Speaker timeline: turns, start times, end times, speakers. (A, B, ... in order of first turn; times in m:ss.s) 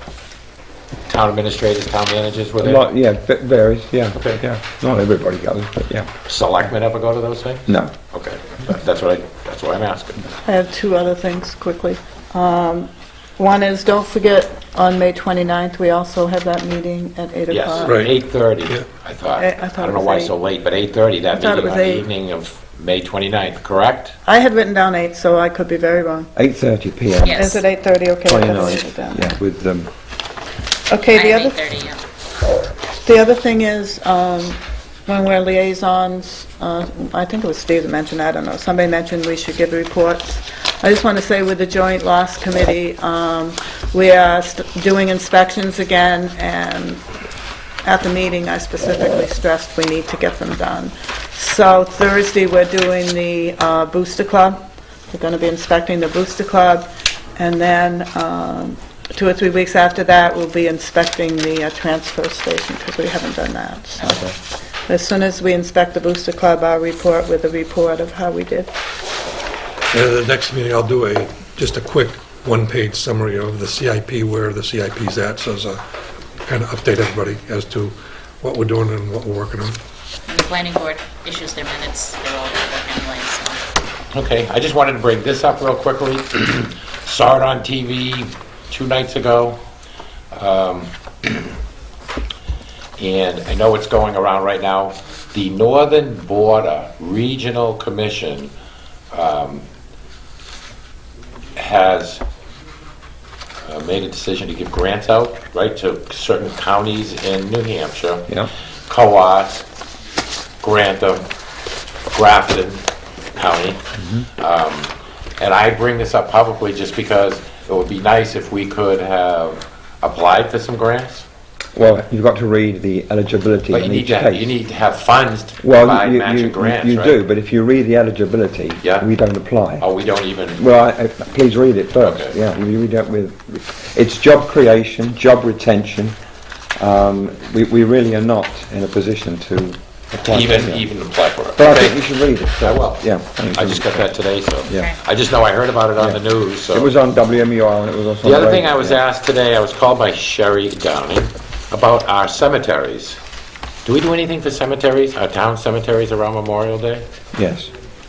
0:01.1-0:02.8 A
0:02.6-0:06.1 B
0:04.2-0:04.4 A
0:06.2-0:10.3 A
0:07.7-0:07.9 B
0:10.4-0:18.0 C
0:17.5-0:24.2 A
0:17.8-0:18.1 D
0:19.4-0:20.3 C
0:21.3-0:22.1 C
0:24.2-0:26.3 C
0:26.3-0:27.6 B
0:27.2-0:27.6 E
0:27.3-0:29.3 C
0:28.2-0:29.9 B
0:30.9-0:31.6 C
0:31.1-0:32.0 E
0:33.0-0:47.0 C
0:47.8-1:04.2 C
1:04.9-1:08.7 C
1:09.9-1:15.8 D
1:16.4-1:19.8 D
1:20.3-1:23.6 E
1:24.1-1:29.6 A
1:30.3-1:31.3 A
1:33.0-1:38.5 A
1:39.1-1:39.6 A
1:41.5-1:42.2 A
1:43.6-1:48.3 A
1:48.9-1:49.6 A
1:50.6-1:51.3 A
1:52.1-1:53.8 A
1:54.0-1:54.2 B
1:54.4-2:01.2 A
2:01.7-2:04.5 B
2:03.7-2:07.2 A
2:05.6-2:09.9 B
2:08.8-2:09.1 A
2:09.8-2:10.6 A
2:10.5-2:16.1 B
2:12.0-2:12.3 A
2:16.8-2:20.9 B
2:20.2-2:26.9 A
2:21.6-2:24.1 B
2:24.6-2:24.9 B
2:24.7-2:24.9 E
2:26.0-2:29.0 B
2:28.2-2:33.2 A
2:33.8-2:37.0 A
2:37.3-2:37.7 B